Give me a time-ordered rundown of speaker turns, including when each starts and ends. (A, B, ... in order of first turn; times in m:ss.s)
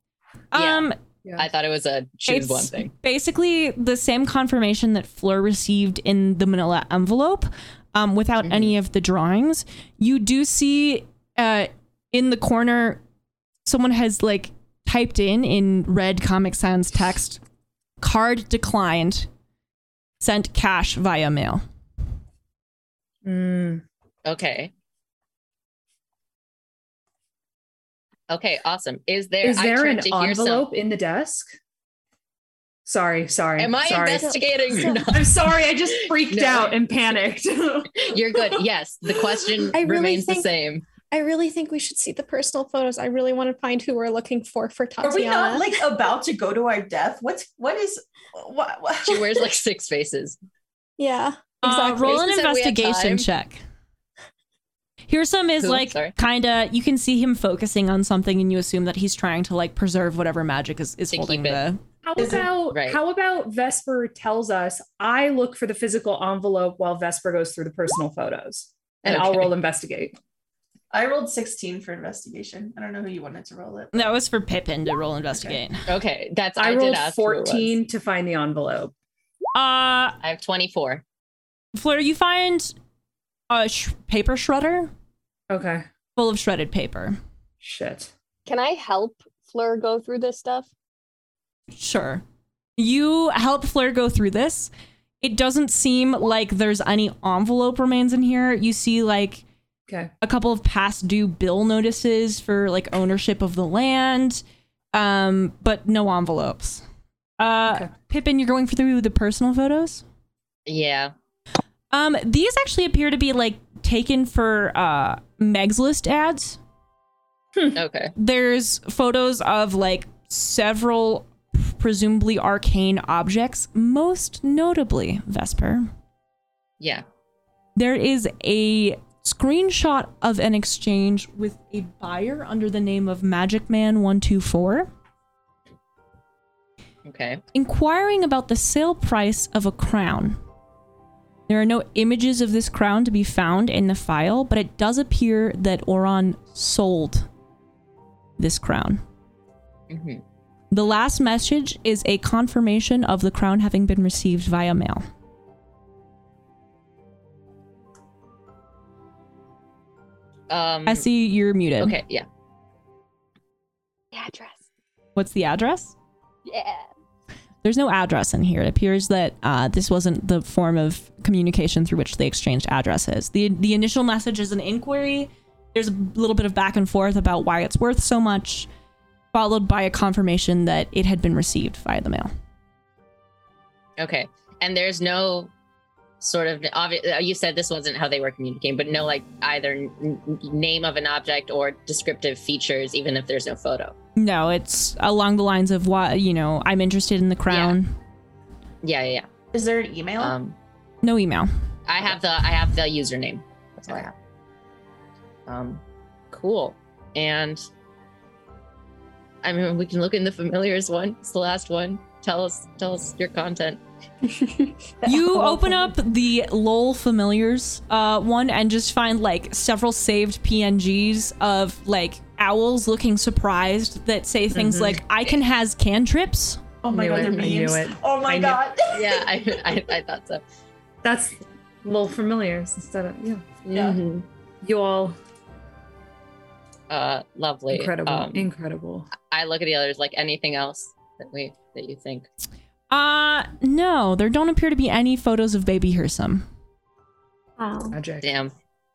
0:00.5-0:01.0 A
0:00.5-0:02.9 B
0:02.3-0:13.0 A
0:08.4-0:08.7 B
0:13.7-0:17.4 A
0:18.0-0:19.3 A
0:20.2-0:21.6 A
0:23.2-0:23.8 C
0:24.3-0:24.7 B
0:28.3-0:30.7 B
0:29.4-0:31.6 C
0:32.9-0:34.4 C
0:33.6-0:36.9 B
0:34.2-0:35.1 D
0:35.1-0:38.4 C
0:38.0-0:40.9 B
0:39.7-0:40.5 D
0:41.1-0:45.8 D
0:45.0-0:49.5 E
0:49.0-0:50.4 B
0:51.0-0:52.3 D
0:51.6-0:53.6 A
0:51.7-0:53.3 B
0:55.1-1:01.8 A
0:55.6-0:56.1 B
1:01.1-1:01.6 B
1:02.0-1:10.2 C
1:02.2-1:02.5 E
1:02.7-1:03.0 B
1:09.1-1:09.5 B
1:10.9-1:14.1 E
1:13.9-1:15.9 A
1:15.9-1:17.7 B
1:16.6-1:18.9 C
1:19.6-1:20.2 A
1:20.2-1:21.0 B
1:21.7-1:22.7 A
1:23.5-1:24.9 A
1:25.5-1:25.9 C
1:26.2-1:27.2 A
1:27.6-1:28.1 C
1:28.5-1:30.7 F
1:31.7-1:32.2 A
1:32.8-1:39.4 A
1:40.2-1:44.4 A
1:44.9-1:46.8 A
1:47.4-1:50.0 A
1:50.7-1:51.1 B
1:51.9-1:56.6 A
1:57.7-1:58.2 B
1:58.2-2:05.9 A
2:06.8-2:07.0 B
2:07.8-2:14.9 A
2:17.0-2:17.4 B
2:17.5-2:20.4 A
2:21.5-2:27.3 A
2:28.4-2:29.0 A
2:29.9-2:30.2 B
2:30.7-2:35.1 A
2:40.5-2:41.1 B
2:40.9-2:42.0 A
2:41.8-2:42.3 B
2:44.2-2:44.6 F
2:45.2-2:46.0 A
2:46.5-2:46.9 F
2:47.6-2:58.7 A
2:59.3-3:02.3 A
3:04.0-3:05.5 B
3:06.2-3:14.0 B
3:14.2-3:18.0 A
3:17.5-3:17.8 B
3:18.8-3:19.3 B
3:19.5-3:20.4 E
3:20.2-3:20.6 B
3:21.0-3:21.5 A
3:21.9-3:24.1 B
3:25.5-3:27.6 B
3:29.4-3:33.8 B
3:35.0-3:46.6 A
3:44.5-3:45.0 C
3:46.8-3:49.8 E
3:46.9-3:48.6 C
3:47.2-3:47.6 B
3:48.9-3:50.4 B
3:51.0-3:53.6 C
3:53.7-3:54.0 E
3:53.7-3:54.2 B
3:54.6-3:55.2 C
3:56.9-3:58.5 B
3:57.7-3:59.1 C
3:59.2-4:02.3 B
4:02.9-4:06.5 A
4:07.6-4:08.0 D
4:07.9-4:08.3 C
4:08.2-4:08.5 B